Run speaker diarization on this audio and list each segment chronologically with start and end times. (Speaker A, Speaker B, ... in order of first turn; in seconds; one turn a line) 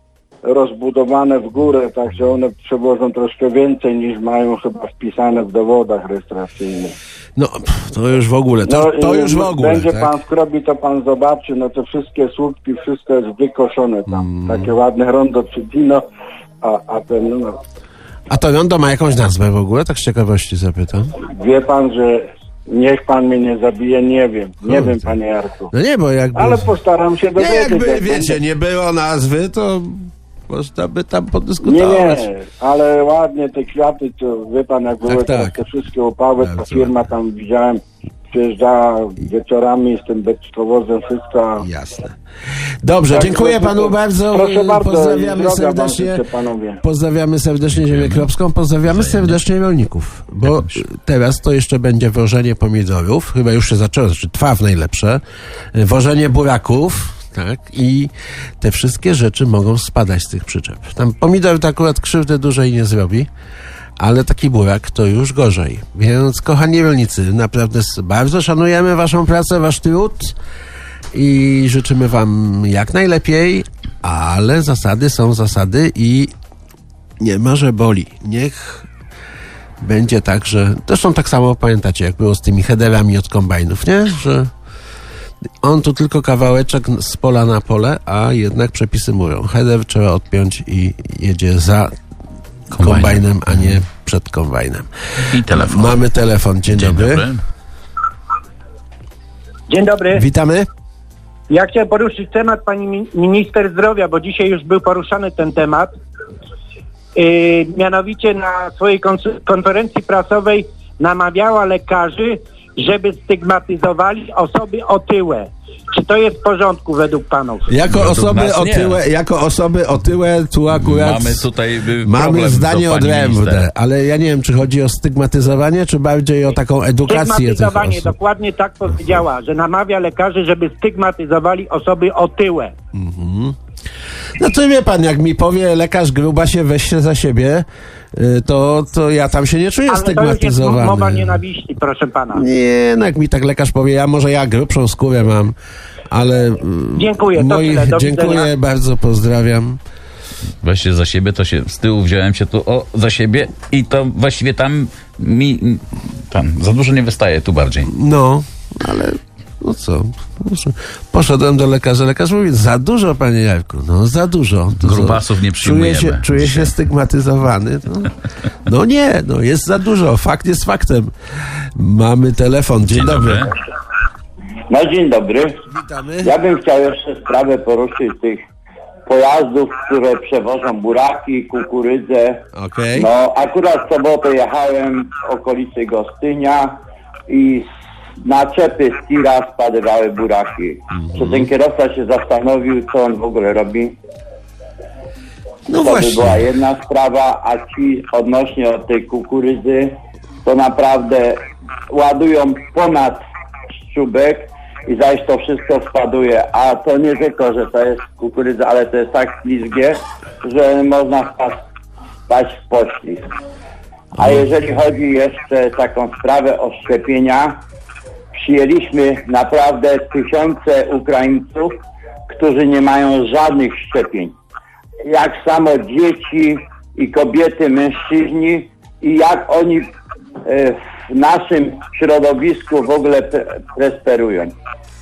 Speaker A: 0.5-7.0
Speaker B: 7.4-10.1
Speaker A: 8.7-16.0
Speaker B: 14.1-14.7
Speaker A: 16.6-17.6
Speaker B: 18.3-21.1
Speaker A: 21.2-25.7
Speaker B: 24.6-25.1
Speaker B: 25.7-26.7
Speaker A: 26.4-28.4
Speaker B: 27.4-32.2
Speaker A: 31.6-41.6
Speaker B: 35.1-35.6
Speaker B: 36.4-37.0
Speaker B: 41.6-42.2
Speaker B: 42.8-46.2
Speaker A: 43.1-46.8
Speaker B: 46.8-55.2
Speaker C: 47.7-48.2
Speaker C: 48.9-49.4
Speaker C: 50.4-50.8
Speaker B: 55.7-63.3
Speaker B: 64.0-70.4
Speaker B: 71.1-76.3
Speaker B: 77.2-78.9
Speaker B: 79.8-84.5
Speaker B: 85.6-92.0
Speaker B: 92.7-97.2
Speaker C: 92.8-93.8
Speaker C: 95.3-96.0
Speaker C: 96.7-97.4
Speaker D: 99.7-100.2
Speaker B: 100.1-100.7
Speaker D: 101.5-105.9
Speaker D: 107.2-117.7
Speaker B: 117.7-121.5
Speaker C: 117.9-119.0
Speaker C: 120.7-123.7
Speaker B: 122.0-128.1
Speaker D: 127.1-132.7
Speaker B: 132.9-133.6
Speaker B: 134.4-141.4
Speaker D: 139.9-142.4
Speaker B: 142.3-145.6
Speaker B: 146.1-149.8
Speaker D: 146.9-148.5
Speaker C: 150.6-157.9
Speaker B: 157.9-168.1
Speaker C: 164.8-166.7
Speaker B: 168.7-171.1
Speaker B: 171.8-173.5
Speaker C: 172.8-173.5
Speaker E: 174.7-175.6
Speaker B: 175.7-176.3
Speaker E: 176.2-178.4
Speaker E: 179.1-182.4
Speaker B: 182.5-183.1
Speaker E: 182.9-187.7
Speaker E: 188.2-193.9
Speaker B: 190.9-191.5
Speaker B: 195.7-196.4
Speaker E: 195.8-203.2
Speaker E: 203.9-211.6
Speaker E: 212.3-213.3
Speaker B: 214.2-214.5
Speaker E: 214.2-217.6
Speaker E: 218.3-224.3
Speaker E: 225.1-229.9
Speaker E: 230.4-234.6